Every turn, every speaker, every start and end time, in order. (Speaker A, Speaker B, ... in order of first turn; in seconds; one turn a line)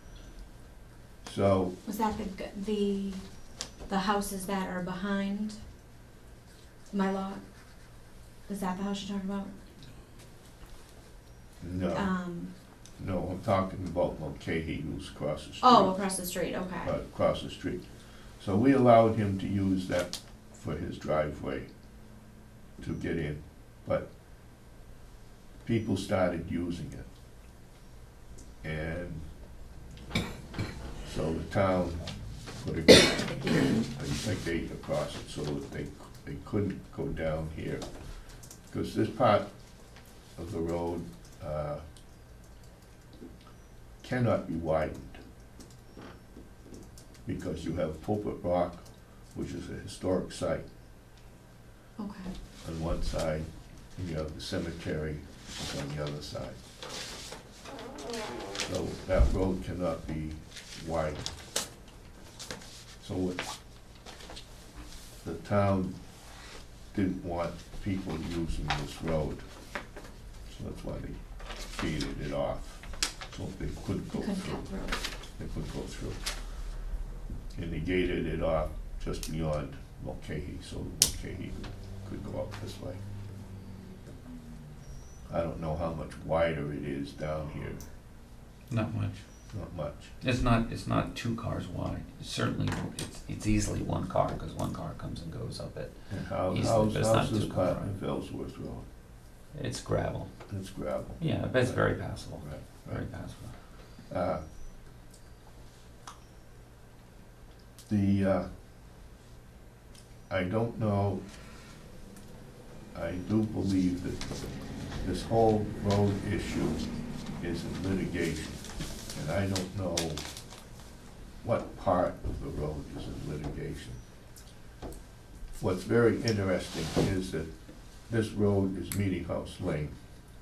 Speaker A: 1.2-1.7
Speaker B: 1.9-3.2
Speaker B: 3.9-5.6
Speaker B: 6.9-7.4
Speaker B: 8.4-9.5
Speaker A: 11.6-12.1
Speaker B: 11.9-12.5
Speaker A: 13.0-16.0
Speaker B: 15.6-17.0
Speaker A: 16.8-17.9
Speaker A: 18.4-21.7
Speaker A: 22.8-24.1
Speaker A: 25.6-27.1
Speaker A: 28.6-29.2
Speaker A: 31.1-32.1
Speaker A: 32.6-37.8
Speaker B: 33.3-33.7
Speaker A: 38.7-39.5
Speaker A: 40.4-41.8
Speaker A: 44.0-45.2
Speaker A: 47.2-50.6
Speaker B: 52.0-52.3
Speaker A: 52.6-56.6
Speaker A: 58.6-61.2
Speaker A: 63.0-63.4
Speaker A: 65.2-66.0
Speaker A: 66.9-69.4
Speaker A: 70.5-71.2
Speaker A: 71.7-74.7
Speaker B: 74.1-75.0
Speaker A: 75.4-76.2
Speaker A: 77.5-83.0
Speaker A: 85.3-87.8
Speaker C: 88.7-89.2
Speaker A: 89.5-90.1
Speaker C: 90.2-95.9
Speaker A: 96.1-98.8
Speaker C: 96.5-97.9
Speaker C: 99.5-100.3
Speaker A: 100.5-103.0
Speaker C: 101.2-103.5
Speaker A: 104.1-104.4
Speaker A: 107.9-108.5
Speaker A: 110.3-111.2
Speaker A: 112.9-114.2
Speaker A: 115.0-116.9
Speaker A: 117.4-118.6
Speaker A: 119.1-120.2
Speaker A: 121.4-124.0
Speaker A: 125.5-127.5
Speaker A: 128.1-129.9